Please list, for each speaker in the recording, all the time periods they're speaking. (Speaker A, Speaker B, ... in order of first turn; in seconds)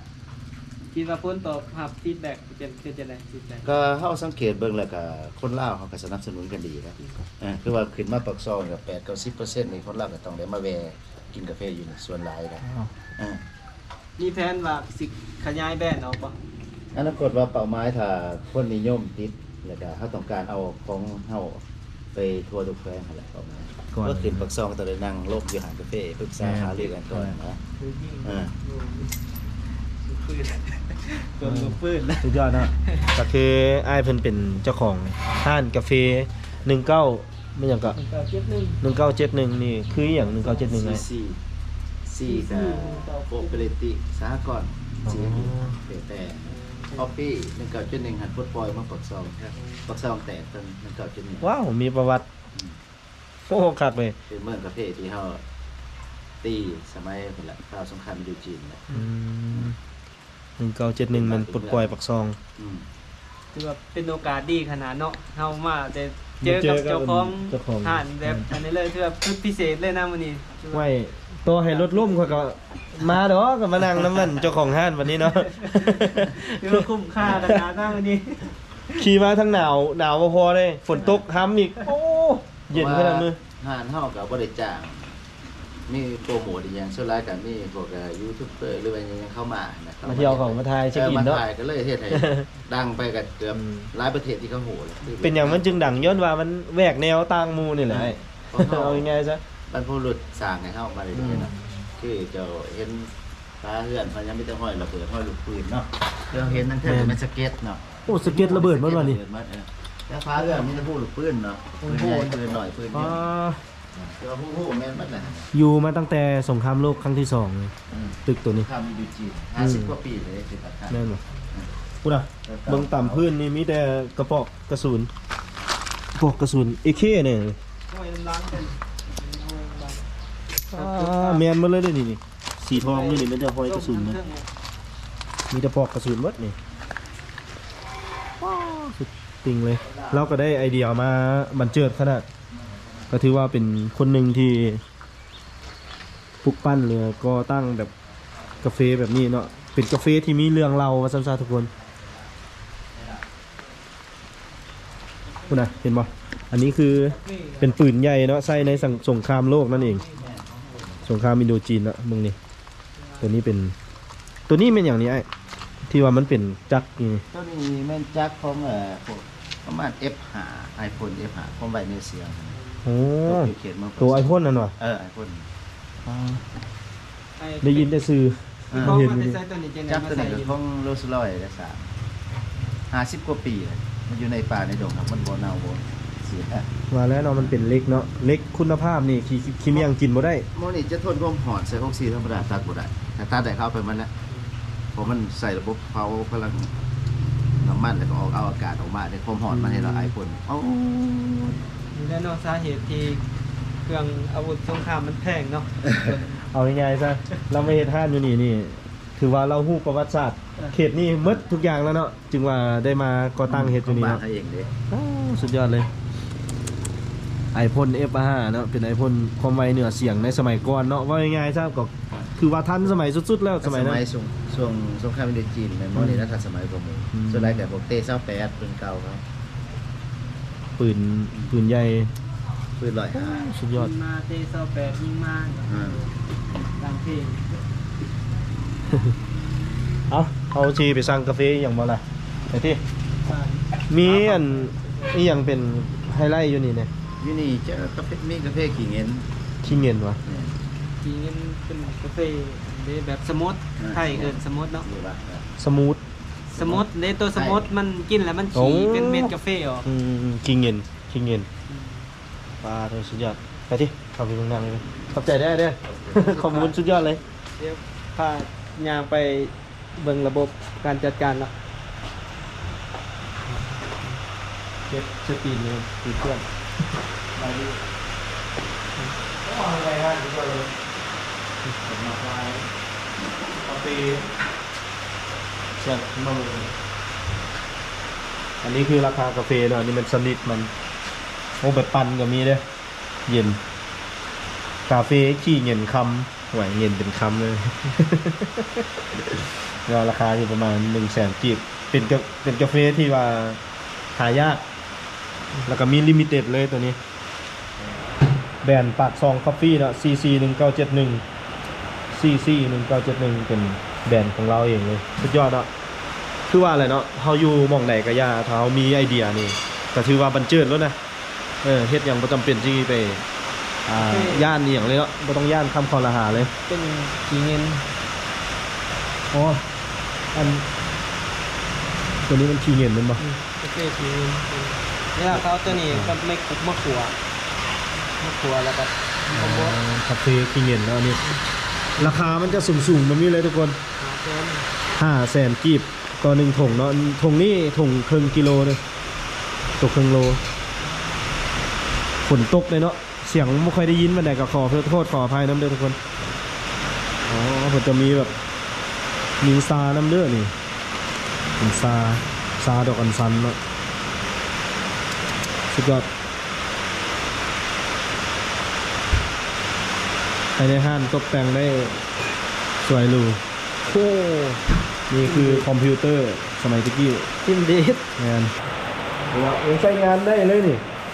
Speaker A: 0.9-3.6, 14.2-16.4, 27.8-29.1, 30.0-32.3, 37.9-38.8, 42.3-43.6, 46.7-47.0, 63.5-70.9, 71.6-72.4, 75.2-79.0, 111.8-112.5, 127.9-130.0, 130.7-131.5, 132.7-134.4, 157.2-157.8, 158.6-159.0, 159.7-160.2, 163.0-163.2, 177.4-177.9, 178.7-180.6, 201.9-203.2, 203.8-206.4, 233.7-236.2, 236.8-237.5, 243.2-245.1, 251.0-254.8, 256.5-259.9, 261.7-262.1, 266.2-266.8, 267.6-271.5, 273.5-274.2, 323.9-324.5, 326.6-327.9, 333.2-337.1, 338.2-339.8, 342.0-342.4, 344.0-344.7, 375.2-375.6, 377.6-377.9
Speaker B: 3.6-12.6, 13.2-13.4, 16.9-27.6, 28.2-28.5, 40.4-41.4, 42.0-51.5, 54.3-55.4, 56.4-58.8, 61.1-61.9, 62.6-62.9, 77.2-77.5, 81.0-81.2, 82.7-85.2, 85.9-96.1, 97.9-99.1, 99.7-113.2, 114.0-115.5, 117.9-121.7, 122.4-123.3, 160.1-161.0, 167.3-172.6, 173.2-175.5, 178.7-179.0, 179.9-181.9, 182.9-186.7, 187.3-187.6, 190.5-194.1, 194.9-196.7, 197.6-201.6, 205.8-206.2, 213.5-214.7, 223.6-229.2, 232.8-233.5, 235.7-236.0, 247.2-249.3, 250.2-250.6, 253.8-255.4, 256.6-257.7, 265.9-266.2
Speaker C: 12.6-12.9, 23.9-24.5, 26.4-27.3, 31.4-38.0, 38.8-41.0, 45.0-45.8, 51.4-52.3, 53.5-54.2, 58.9-59.8, 60.6-62.4, 66.4-68.5, 70.7-77.5, 78.9-83.4, 90.0-91.4, 92.1-92.5, 93.5-93.9, 95.2-99.4, 101.1-101.8, 106.8-107.2, 108.1-109.2, 112.9-113.6, 115.5-117.7, 118.2-118.7, 119.6-119.9, 120.9-121.2, 122.0-125.1, 126.2-127.6, 130.7-134.2, 135.5-136.6, 138.4-142.3, 143.1-144.8, 146.4-147.9, 148.6-151.7, 155.5-160.0, 161.0-162.4, 163.2-163.7, 164.5-165.3, 165.9-167.2, 172.8-174.7, 176.0-176.4, 177.6-179.4, 186.9-190.4, 199.5-200.1, 206.4-214.2, 214.9-215.9, 217.5-224.0, 225.9-226.3, 227.1-227.7, 230.8-232.1, 233.1-233.9, 238.9-239.1, 240.1-242.8, 243.9-246.9, 249.6-250.2, 255.6-256.0, 258.5-259.3, 259.8-261.5, 262.6-267.2, 274.9-276.4, 277.4-277.8, 279.4-280.7, 281.8-282.6, 283.6-284.3, 285.8-286.7, 288.6-290.7, 291.6-292.6, 293.3-293.6, 294.9-303.6, 304.1-304.6, 305.7-307.0, 308.6-311.2, 312.1-315.7, 316.5-321.0, 321.6-323.2, 323.9-326.5, 329.3-329.7, 330.3-330.6, 332.2-333.2, 335.3-336.1, 339.3-341.2, 342.0-343.8, 344.9-348.8, 349.8-350.4, 352.2-356.0, 357.3-358.3, 359.4-360.5, 361.6-363.6, 365.7-366.1, 370.6-372.0, 372.8-378.5, 379.3-380.8